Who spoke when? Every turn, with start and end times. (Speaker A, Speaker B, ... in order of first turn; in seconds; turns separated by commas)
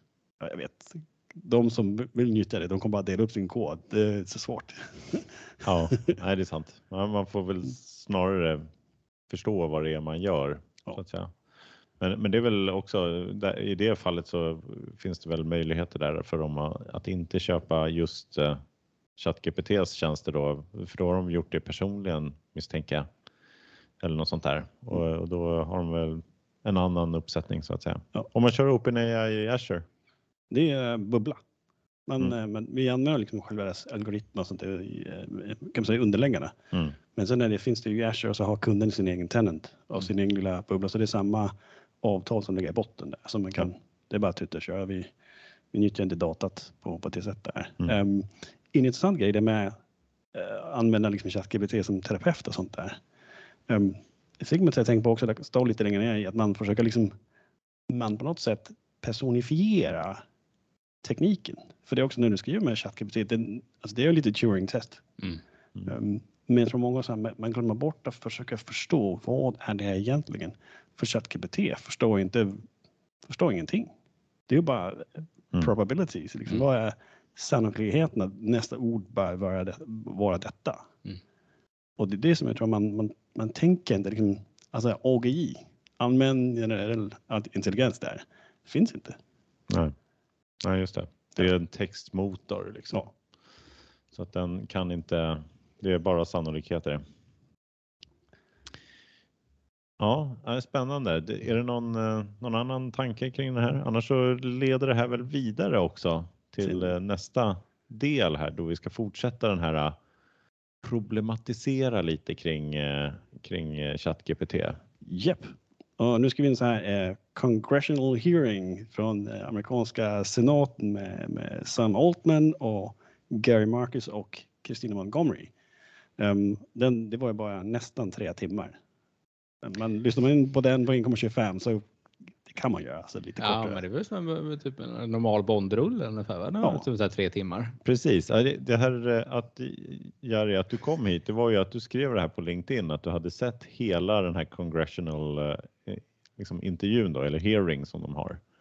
Speaker A: 0.4-5.3, Speaker B: 5.6-8.7, Speaker B: 9.3-11.3, Speaker B: 12.0-18.6, Speaker B: 19.2-23.1, Speaker B: 24.0-29.8, Speaker A: 30.5-31.4, Speaker A: 32.1-36.5, Speaker A: 37.1-45.1, Speaker A: 45.7-49.7, Speaker A: 50.3-53.0, Speaker A: 53.7-57.1, Speaker A: 57.9-60.2, Speaker A: 61.0-65.0, Speaker A: 65.8-72.6, Speaker A: 73.2-73.9, Speaker A: 74.5-80.8, Speaker A: 82.0-89.2, Speaker B: 89.7-89.9, Speaker B: 90.6-93.0, Speaker B: 94.1-97.0, Speaker B: 100.0-110.0, Speaker A: 106.6-106.9, Speaker B: 110.8-114.8, Speaker A: 115.0-125.5, Speaker A: 126.2-128.8, Speaker A: 129.6-131.8, Speaker A: 132.4-133.8, Speaker C: 133.4-137.8, Speaker B: 137.8-148.4